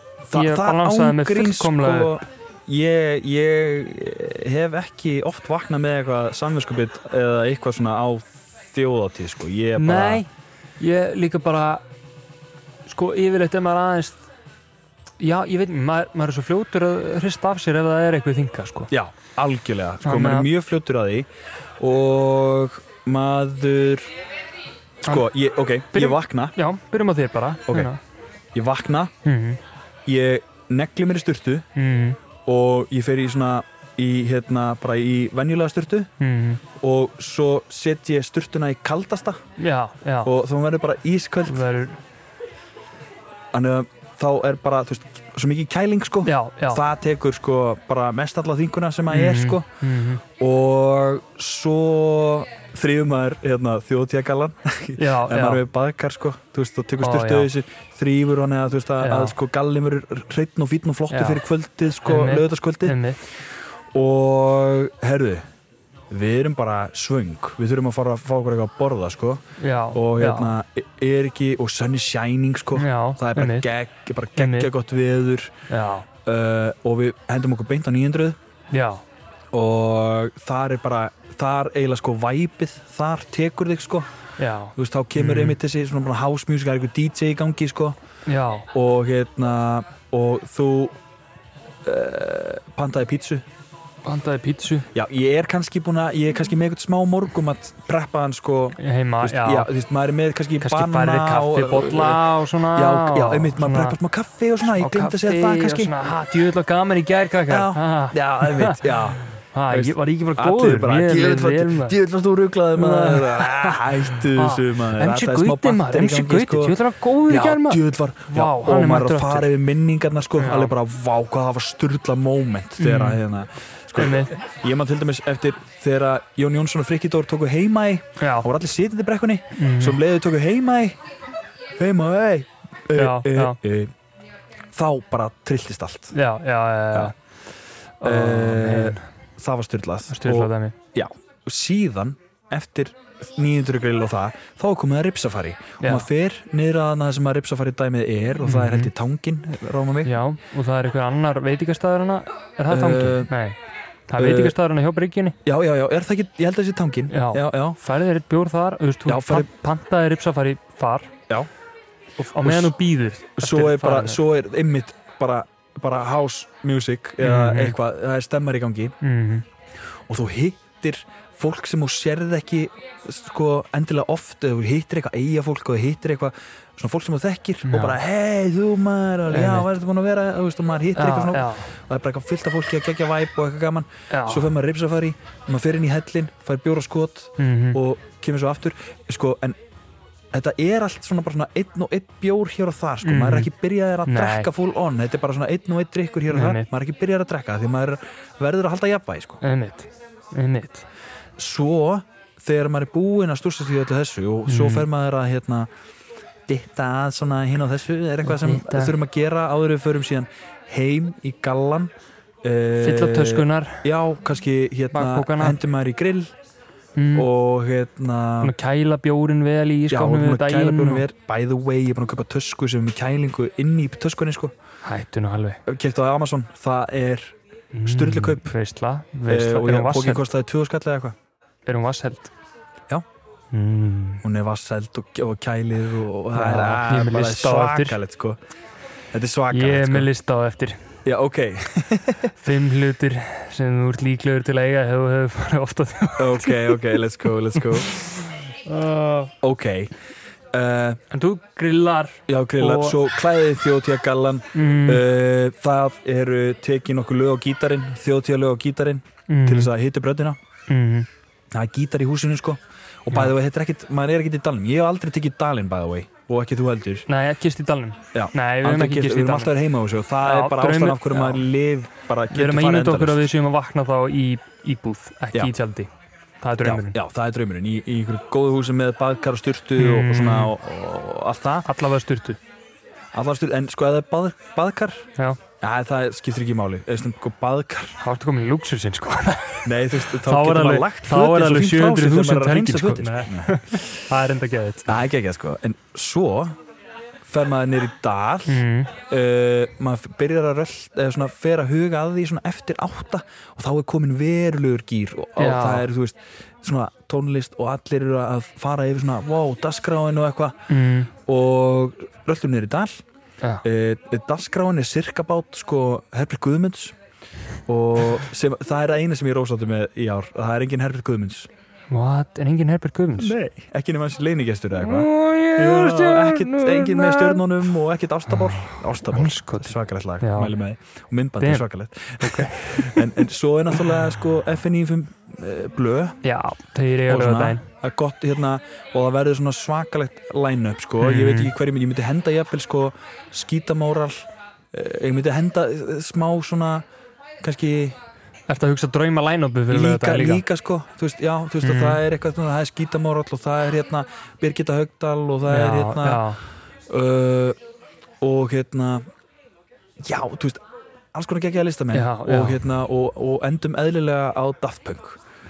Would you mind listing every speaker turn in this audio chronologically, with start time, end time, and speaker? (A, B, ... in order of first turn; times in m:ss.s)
0:00.3-0:10.2 A
0:00.3-0:02.1 B
0:09.8-0:11.8 B
0:12.9-0:14.2 B
0:15.2-0:18.9 B
0:18.9-0:21.3 A
0:20.0-0:20.5 B
0:21.8-0:24.1 A
0:25.0-0:26.5 A
0:25.9-0:28.0 B
0:28.5-0:29.1 A
0:29.2-0:29.6 B
0:30.0-0:31.6 A
0:31.7-0:32.2 B
0:32.4-0:36.1 A
0:36.2-0:36.6 B
0:36.8-0:39.4 A
0:39.6-0:40.3 B
0:40.2-0:41.6 A
0:41.4-0:42.0 B
0:43.5-0:49.6 A
0:46.2-0:46.8 B
0:49.1-0:50.2 B
0:50.4-1:03.0 A
0:55.0-0:55.6 B
0:57.0-0:57.5 B
0:59.0-0:59.4 B
1:01.1-1:01.4 B
1:02.0-1:03.2 B
1:03.9-1:05.5 A
1:06.1-1:15.5 A
1:09.6-1:10.5 B
1:12.7-1:13.7 B
1:14.4-1:14.7 B
1:15.7-1:16.1 B
1:16.2-1:18.4 A
1:18.7-1:19.0 B
1:19.5-1:24.1 A
1:24.4-1:25.6 B
1:24.8-1:28.0 A
1:28.3-1:28.7 B
1:28.7-1:31.0 A
1:31.8-1:33.4 A
1:34.0-1:34.9 B
1:34.9-1:46.0 A
1:38.8-1:39.7 B
1:40.6-1:44.0 B
1:44.7-1:52.0 B
1:47.5-2:11.0 A
1:52.7-1:59.5 B
2:00.4-2:00.7 B
2:02.8-2:03.2 B
2:04.0-2:04.3 B
2:08.2-2:08.5 B
2:09.6-2:10.0 B
2:11.8-2:13.9 A
2:12.9-2:13.6 B
2:14.7-2:16.1 A
2:16.1-2:17.1 B
2:18.0-2:19.0 B
2:18.0-2:30.2 A
2:20.1-2:20.8 B
2:25.8-2:26.1 B
2:28.4-2:28.9 B
2:30.0-2:33.6 B
2:32.7-2:33.3 A
2:34.1-2:35.4 B
2:34.2-2:34.6 A
2:35.4-2:37.8 A
2:37.1-2:41.1 B
2:39.0-2:39.5 A
2:42.2-2:42.8 A
2:42.3-2:44.2 B
2:43.4-2:48.9 A
2:47.2-2:47.8 B
2:49.0-2:49.4 B
2:50.1-3:09.6 A
2:57.6-2:58.0 B
2:59.3-2:59.7 B
3:00.9-3:01.7 B
3:04.1-3:04.5 B
3:07.4-3:07.8 B
3:10.3-3:19.4 A
3:13.0-3:13.5 B
3:14.0-3:14.5 B
3:16.3-3:16.7 B
3:19.4-3:20.8 B
3:21.4-3:25.7 A
3:24.5-3:24.9 B
3:26.5-3:31.9 A
3:28.2-3:29.0 B
3:32.4-3:36.3 A
3:32.8-3:33.8 B
3:34.9-3:35.6 B
3:37.0-3:37.3 B
3:37.1-3:38.5 A
3:38.4-3:41.0 B
3:39.9-3:44.5 A
3:44.8-3:45.6 B
3:45.6-3:47.3 A
3:47.7-3:50.3 B
3:47.8-3:48.5 A
3:49.3-3:51.2 A
3:51.6-3:52.3 B
3:53.5-3:54.2 B
3:54.2-3:58.4 A
3:56.3-3:58.0 B
3:59.1-4:00.1 A
3:59.5-4:00.9 B
4:01.0-4:02.3 A
4:02.4-4:07.0 B
4:06.2-4:07.9 A
4:07.6-4:09.3 B
4:09.4-4:09.9 A
4:10.5-4:11.0 A
4:11.1-4:13.0 B
4:12.3-4:20.4 A
4:14.5-4:15.0 B
4:19.3-4:19.7 B
4:20.7-4:21.1 B
4:21.5-4:27.0 A
4:27.1-4:29.6 B
4:28.1-4:33.3 A
4:30.2-4:31.4 B
4:32.3-4:35.9 B
4:36.4-4:37.0 B
4:36.6-4:41.7 A
4:39.8-4:40.5 B
4:41.6-4:42.4 B
4:43.1-4:45.1 A
4:45.6-4:48.0 A
4:48.0-4:54.9 B
4:49.6-4:53.9 A
4:54.9-4:56.6 A
4:57.2-5:10.6 A
4:58.5-4:58.9 B
5:05.4-5:05.8 B
5:10.7-5:11.1 B
5:11.2-5:13.0 A
5:13.6-5:16.9 A
5:17.7-5:21.5 A
5:21.9-5:23.3 B
5:23.2-5:36.2 A
5:24.8-5:27.4 B
5:28.3-5:30.5 B
5:31.4-5:31.7 B
5:32.2-5:33.2 B
5:36.2-5:37.6 B
5:37.1-5:46.8 A
5:41.0-5:41.5 B
5:47.4-5:48.0 A
5:48.5-5:50.4 B
5:49.7-5:56.2 A
5:51.6-5:52.0 B
5:55.5-5:56.4 B
5:56.9-5:57.6 A
5:58.2-5:59.1 A
6:00.0-6:00.6 A
6:01.1-6:05.2 A
6:01.9-6:02.6 B